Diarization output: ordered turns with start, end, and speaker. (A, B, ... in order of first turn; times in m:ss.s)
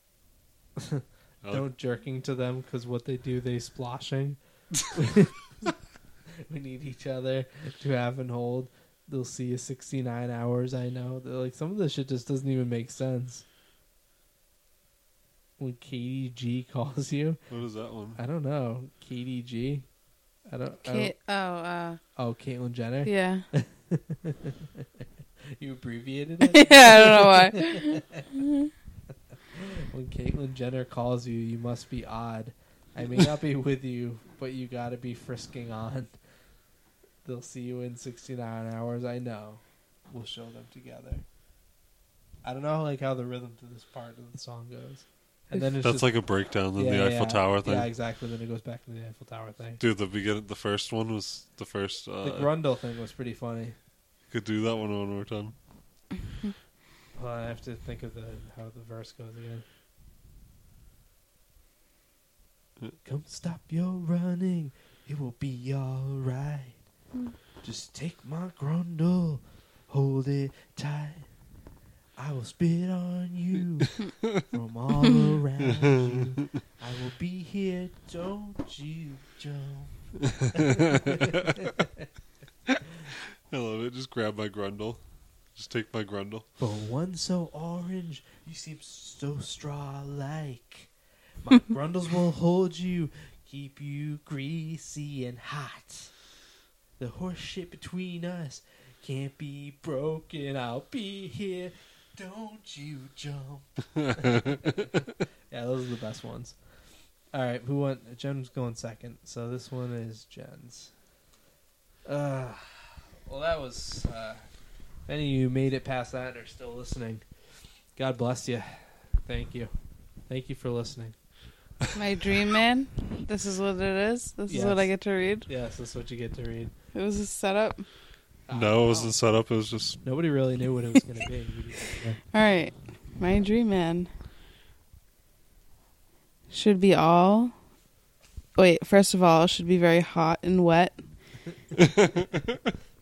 0:00.8-0:04.4 A
0:04.9-0:05.4 A
0:06.4-0:13.4 A
0:15.6-0:17.4 A
0:17.5-0:18.2 B
0:18.2-0:19.9 A
0:20.5-0:21.1 A
0:20.8-0:22.0 C
0:22.2-0:24.8 A
0:23.0-0:23.5 C
0:25.6-0:28.3 A
0:26.4-0:28.7 C
0:29.6-0:36.1 A
0:37.2-0:41.2 A
0:42.4-0:46.1 A
0:45.8-0:47.9 B
0:46.8-0:49.8 A
0:49.8-0:52.5 B
0:52.2-0:53.8 A
0:54.3-0:55.6 B
0:57.2-0:59.6 A
1:03.0-1:06.8 A
1:07.6-1:11.3 A
1:12.2-1:19.9 A
1:15.7-1:16.4 B
1:20.4-1:21.7 B
1:20.4-1:22.1 A
1:22.7-1:25.0 B
1:25.6-1:26.5 B
1:26.6-1:30.9 A
1:31.4-1:36.1 A
1:37.0-1:46.6 A
1:44.0-1:45.0 B
1:47.3-1:50.9 A
1:52.1-1:54.4 A
1:55.1-1:57.2 A
1:58.0-1:59.7 A
2:00.3-2:01.2 A
2:02.0-2:05.5 C
2:04.5-2:04.9 A
2:05.5-2:06.7 A
2:06.9-2:07.9 C
2:08.5-2:09.2 A
2:08.5-2:10.0 B
2:10.0-2:12.2 A
2:12.3-2:14.1 C
2:16.5-2:17.5 C
2:18.6-2:21.0 C
2:21.7-2:22.7 B